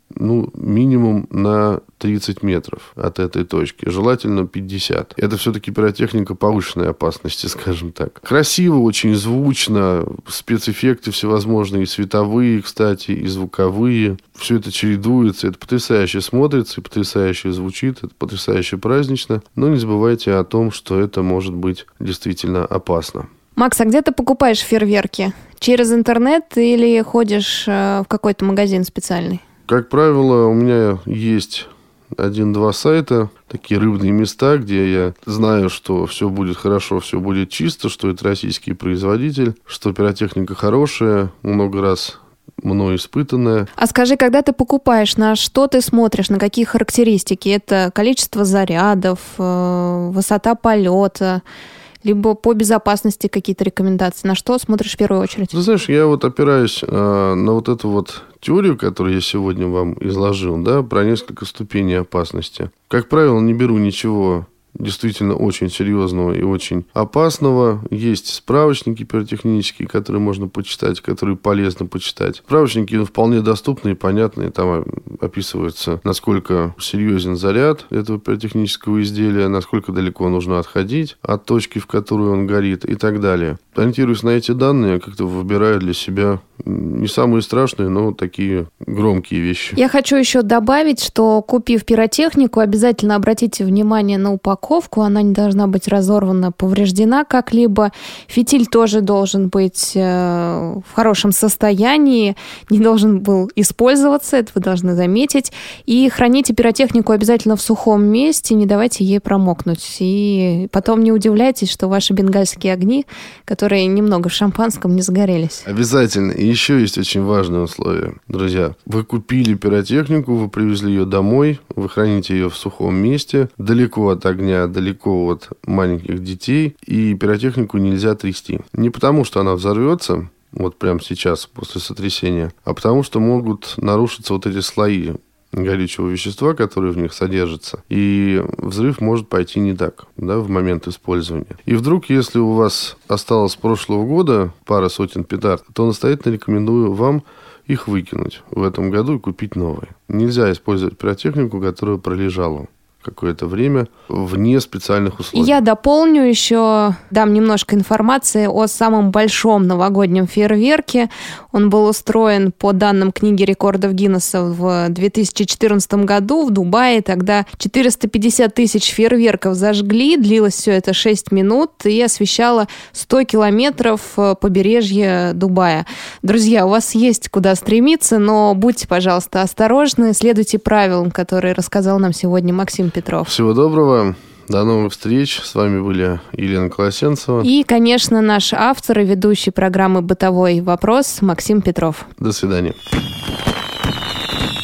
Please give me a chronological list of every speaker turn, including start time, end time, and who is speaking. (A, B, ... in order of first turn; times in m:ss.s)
0:00.2-0:23.3 A
0:23.6-0:29.4 B
0:29.7-0:43.7 A
0:43.8-0:51.4 B
0:52.0-0:55.6 B
0:55.5-1:29.8 A
1:29.8-1:55.7 B
1:55.7-2:35.6 A
2:35.3-3:03.3 B
3:03.2-3:07.5 A
3:07.4-3:12.1 B
3:12.2-3:12.8 A